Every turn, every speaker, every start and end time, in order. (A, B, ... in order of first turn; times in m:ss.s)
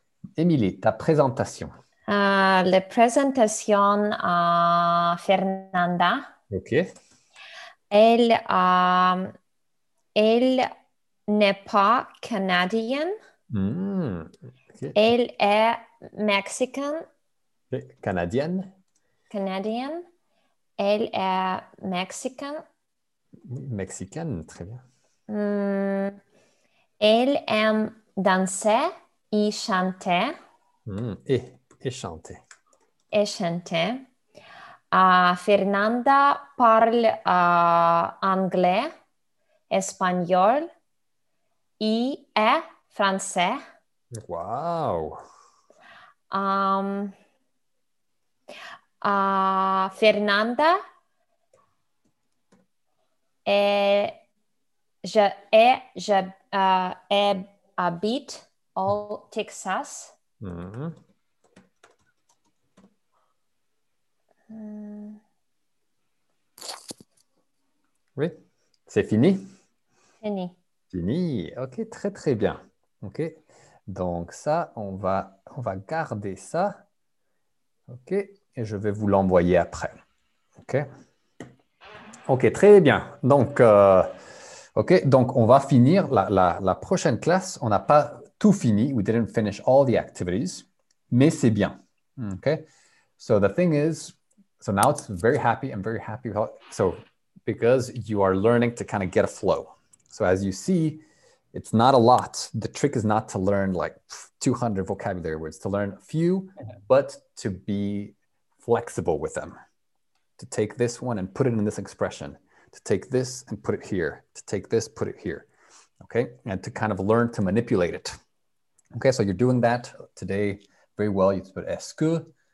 0:00.4-0:01.7 A
0:02.1-0:06.3 B
0:06.5-0:06.9 A
0:07.9-0:09.3 B
0:10.2-0:10.7 B
0:11.3-0:13.2 B
0:13.5-0:15.0 A
0:15.0-0:17.0 B
0:17.7-0:18.7 A
0:19.3-0:20.0 B
0:20.8-0:22.6 B
0:23.4-0:24.8 A
0:25.3-0:26.2 B
0:27.0-0:30.4 B
0:30.8-0:32.4 A
0:33.1-0:34.0 B
0:34.9-0:38.9 B
0:39.7-0:40.7 B
0:41.8-0:43.6 B
0:44.1-0:45.2 A
0:46.3-0:47.1 B
0:49.0-0:50.8 B
0:53.4-0:54.1 B
0:55.0-1:00.1 B
1:00.4-1:01.0 A
1:04.5-1:05.2 B
1:08.2-1:09.5 A
1:10.2-1:10.5 B
1:10.9-1:16.8 A
1:17.9-1:20.0 A
1:20.6-1:20.9 A
1:22.3-1:24.2 A
1:24.7-1:32.6 A
1:33.2-1:41.0 A
1:41.5-1:49.6 A
1:50.4-1:55.5 A
1:56.0-1:58.2 A
1:58.9-2:02.3 A